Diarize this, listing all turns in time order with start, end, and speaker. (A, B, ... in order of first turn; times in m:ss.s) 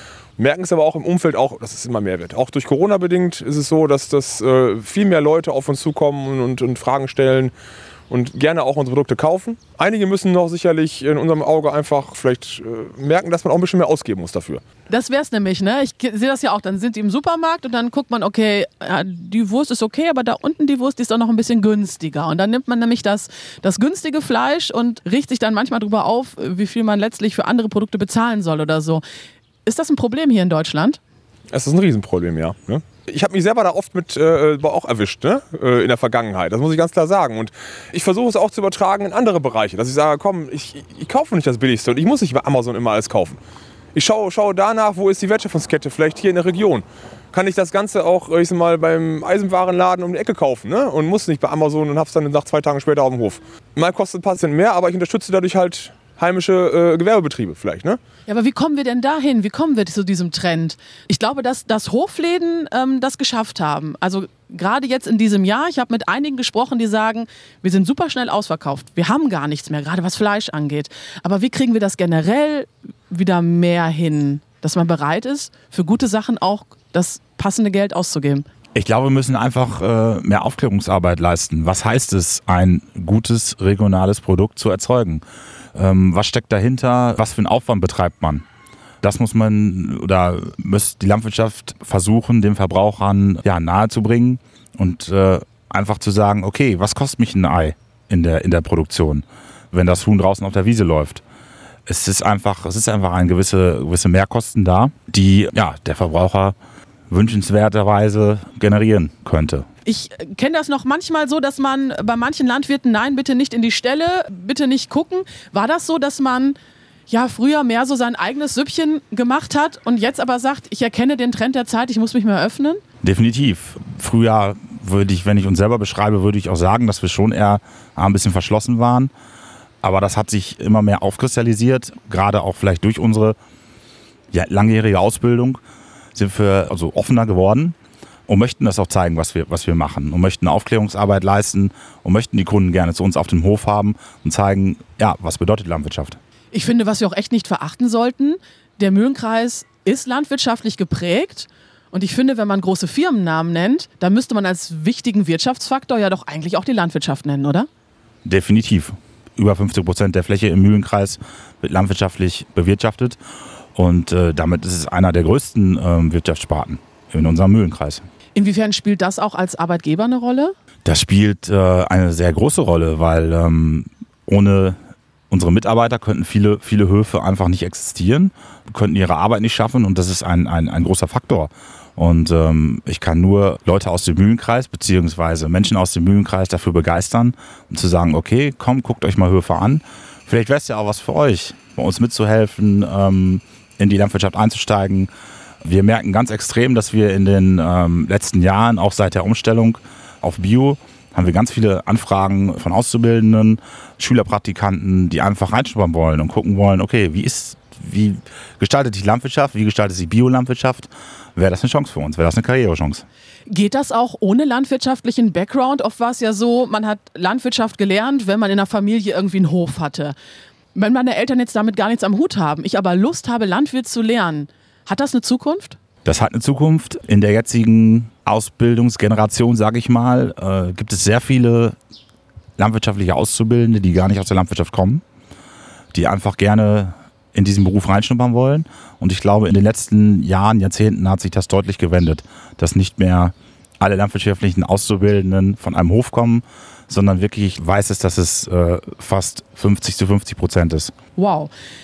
0:00.4-0:07.5 A
0:08.1-0:14.6 A
0:14.9-0:29.0 B
0:29.6-0:31.0 B
0:31.5-0:43.4 A
0:43.9-0:58.0 A
0:58.3-1:18.4 B
1:18.7-1:25.2 C
1:25.7-1:28.4 C
1:29.0-1:41.2 C
1:41.9-1:46.5 C
1:47.1-1:49.7 C
1:49.8-1:56.6 B
1:57.1-2:02.8 B
2:03.0-2:09.1 C
2:09.8-2:13.4 C
2:14.3-2:15.6 C
2:16.1-2:17.8 C
2:18.3-2:26.2 C
2:26.5-2:37.7 B
2:38.2-2:43.2 C
2:43.7-2:48.0 C
2:48.3-2:50.5 B
2:50.8-2:54.8 C
2:55.3-3:15.1 C
3:15.6-3:33.0 C
3:33.5-3:40.1 B
3:40.7-3:45.8 B
3:46.0-3:51.8 C
3:52.6-3:55.0 C
3:55.9-4:10.9 C
4:11.2-4:11.5 B